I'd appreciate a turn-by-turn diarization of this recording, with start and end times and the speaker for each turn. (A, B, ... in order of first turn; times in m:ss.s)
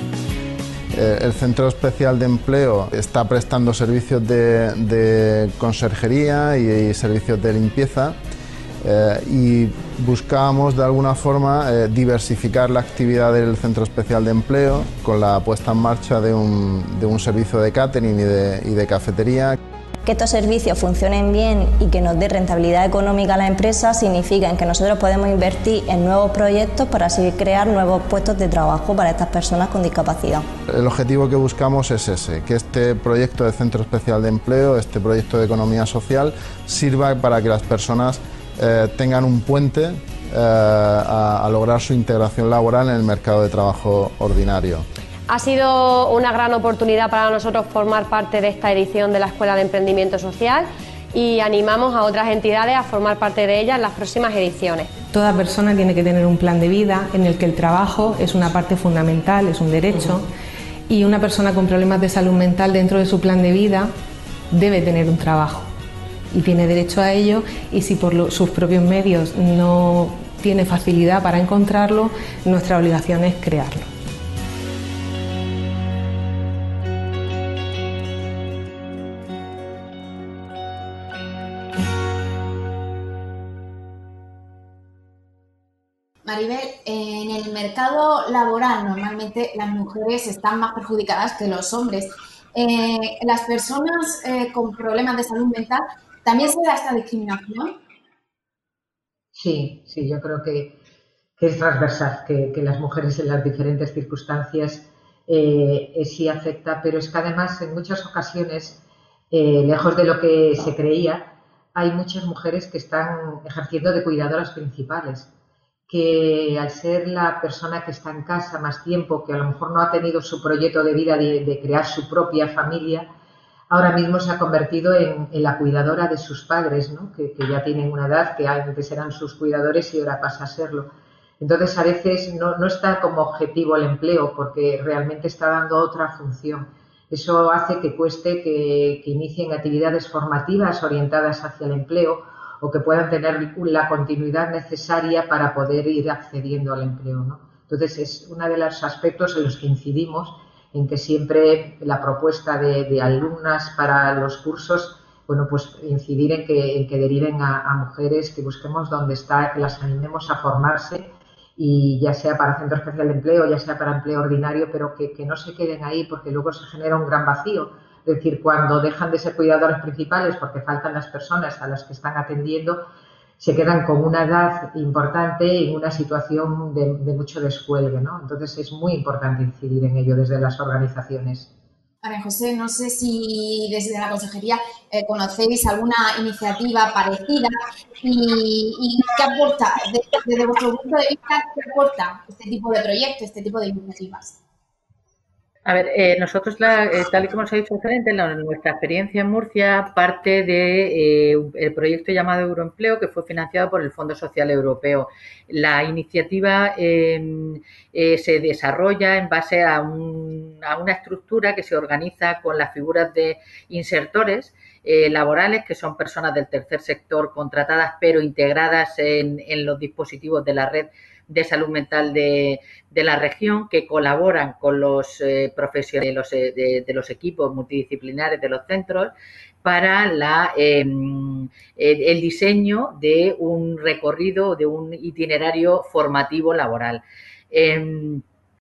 0:00.9-0:08.2 A
0:08.8-0:19.6 A
0:20.0-0:30.5 B
0:30.7-0:44.9 A
0:45.3-0:54.9 C
0:55.1-1:00.3 D
1:00.9-1:03.9 D
1:04.5-1:05.7 D
1:06.3-1:13.9 D
1:26.2-1:37.8 E
1:39.3-1:40.8 F
1:41.4-1:55.3 F
1:55.9-2:03.1 F
2:03.7-2:10.9 F
2:11.4-2:52.8 F
2:53.4-3:01.5 F
3:02.0-3:14.4 E
3:15.6-3:58.2 G